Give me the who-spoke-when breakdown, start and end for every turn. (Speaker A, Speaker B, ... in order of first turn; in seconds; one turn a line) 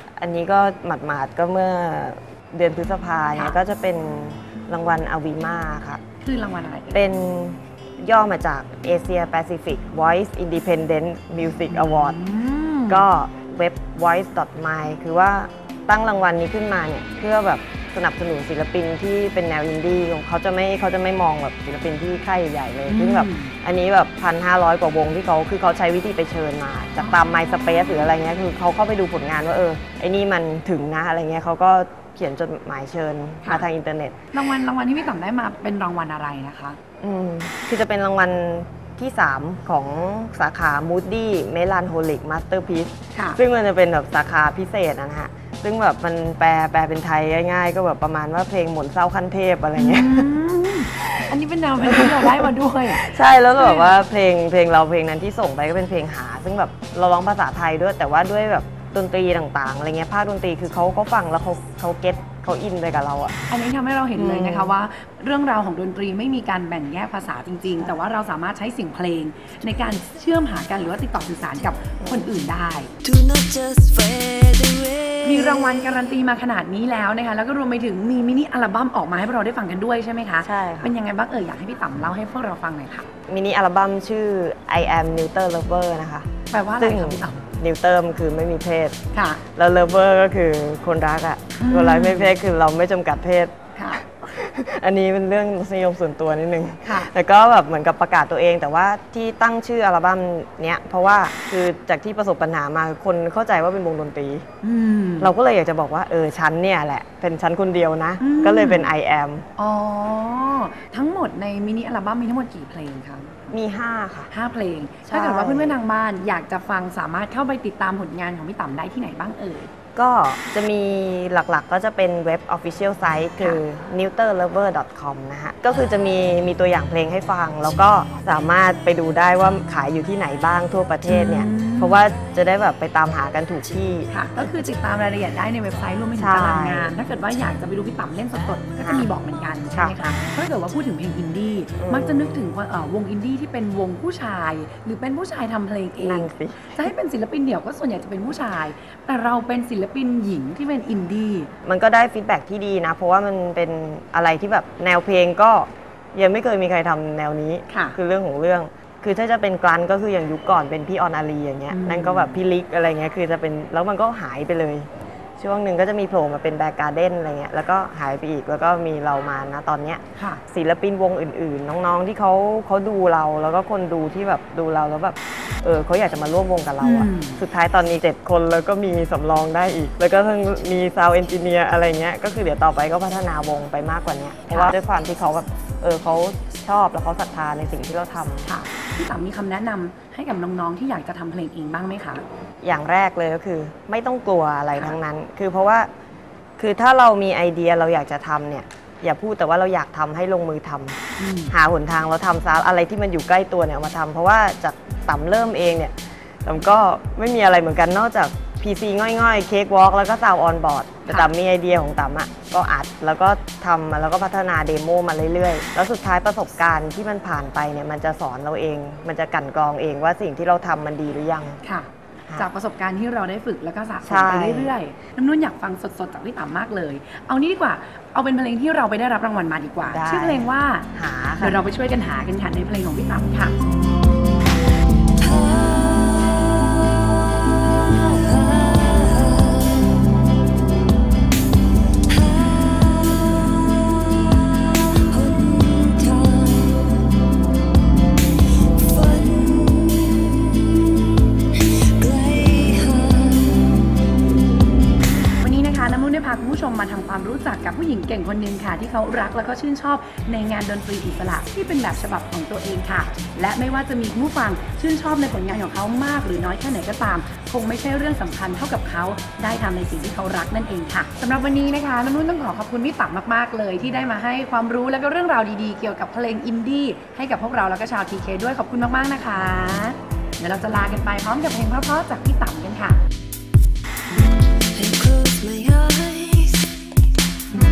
Speaker A: 0.2-6.0
Speaker B: 6.2-7.0
Speaker A: 6.9-12.2
Speaker B: 11.7-13.1
Speaker A: 12.9-34.2
Speaker B: 22.9-23.6
Speaker B: 34.3-36.8
Speaker A: 37.0-50.3
Speaker B: 43.1-43.4
Speaker B: 49.8-53.9
Speaker A: 51.0-63.4
Speaker B: 63.5-72.9
Speaker A: 64.2-64.7
Speaker C: 73.0-75.6
Speaker B: 75.2-83.1
Speaker A: 80.4-81.0
Speaker A: 83.3-89.0
Speaker B: 86.5-87.5
Speaker B: 89.1-89.4
Speaker A: 89.5-104.5
Speaker B: 91.6-92.3
Speaker B: 93.8-94.0
Speaker B: 96.8-97.1
Speaker B: 104.6-105.3
Speaker A: 105.2-109.4
Speaker B: 108.2-108.9
Speaker B: 109.6-113.6
Speaker A: 113.5-114.3
Speaker B: 114.3-119.7
Speaker A: 115.1-115.8
Speaker A: 120.0-134.1
Speaker B: 131.1-132.0
Speaker B: 134.1-151.5
Speaker A: 136.2-136.9
Speaker A: 141.8-142.6
Speaker A: 146.0-146.8
Speaker A: 151.7-188.5
Speaker B: 157.7-158.0
Speaker B: 161.7-162.4
Speaker B: 170.2-170.4
Speaker B: 176.8-177.4
Speaker B: 184.5-184.8
Speaker B: 188.4-192.2
Speaker A: 192.6-195.9
Speaker A: 196.6-201.0
Speaker B: 201.2-201.5
Speaker A: 201.5-221.6
Speaker B: 221.6-233.6
Speaker A: 224.0-224.7
Speaker A: 229.9-231.6
Speaker C: 235.2-240.0
Speaker C: 242.1-247.0
Speaker C: 248.7-250.8
Speaker C: 251.6-253.9
Speaker B: 255.4-283.0
Speaker C: 284.7-286.9